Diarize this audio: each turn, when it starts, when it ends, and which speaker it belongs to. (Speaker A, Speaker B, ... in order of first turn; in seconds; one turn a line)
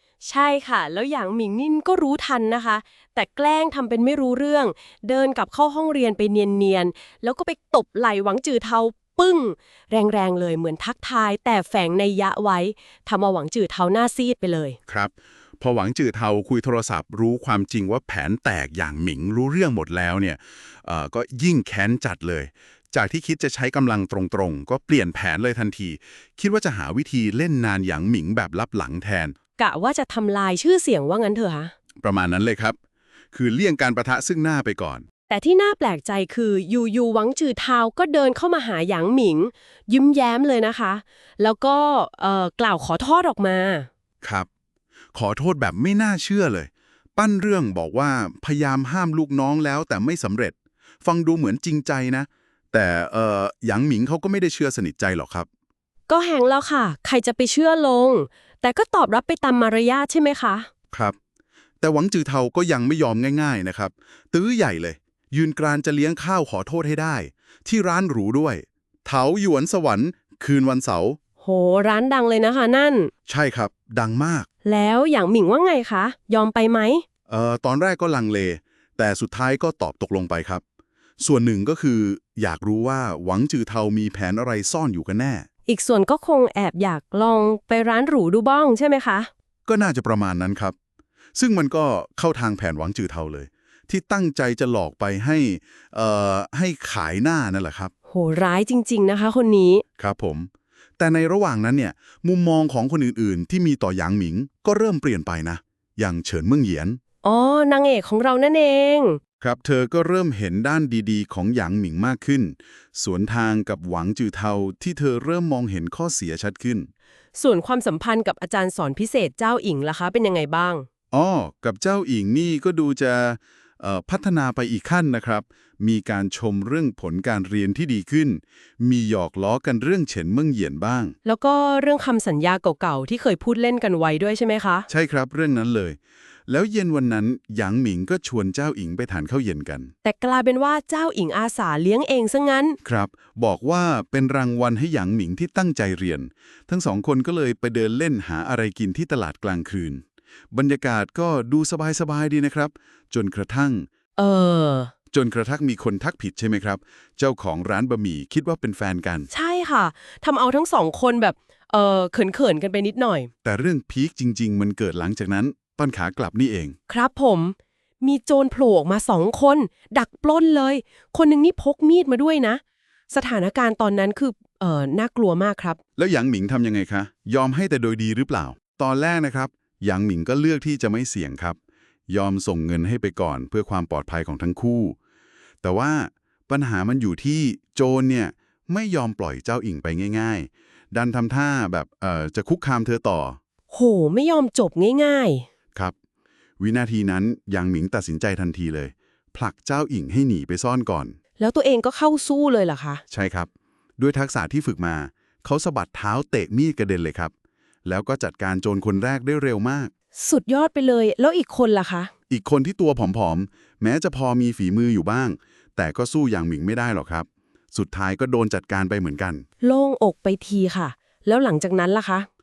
Speaker A: 0.2-14.8
Speaker B: 14.9-29.4
Speaker A: 29.6-31.7
Speaker B: 32.0-32.8
Speaker B: 33.3-35.0
Speaker A: 35.3-43.9
Speaker B: 44.2-44.5
Speaker B: 45.1-55.5
Speaker A: 56.1-60.7
Speaker B: 61.8-71.2
Speaker A: 71.4-73.1
Speaker B: 73.3-74.5
Speaker A: 74.6-77.0
Speaker B: 77.3-80.6
Speaker B: 81.2-85.5
Speaker A: 85.7-89.3
Speaker B: 89.7-90.8
Speaker B: 91.3-97.9
Speaker A: 98.1-99.8
Speaker B: 100.0-107.0
Speaker A: 107.2-109.2
Speaker B: 109.4-116.9
Speaker A: 117.3-120.9
Speaker B: 121.1-131.2
Speaker A: 131.2-134.9
Speaker B: 134.9-139.9
Speaker A: 140.0-142.8
Speaker B: 142.8-153.9
Speaker A: 154.2-154.9
Speaker B: 155.1-159.3
Speaker A: 159.3-163.3
Speaker B: 163.4-166.8
Speaker A: 166.9-175.8
Speaker B: 176.0-181.6
Speaker B: 182.1-185.0
Speaker B: 185.6-193.4
Speaker A: 193.7-195.4
Speaker B: 196.6-201.2
Speaker A: 201.4-203.0
Speaker B: 203.1-207.3
Speaker B: 207.8-209.9
Speaker A: 210.2-212.1
Speaker B: 212.3-219.4
Speaker A: 219.6-222.3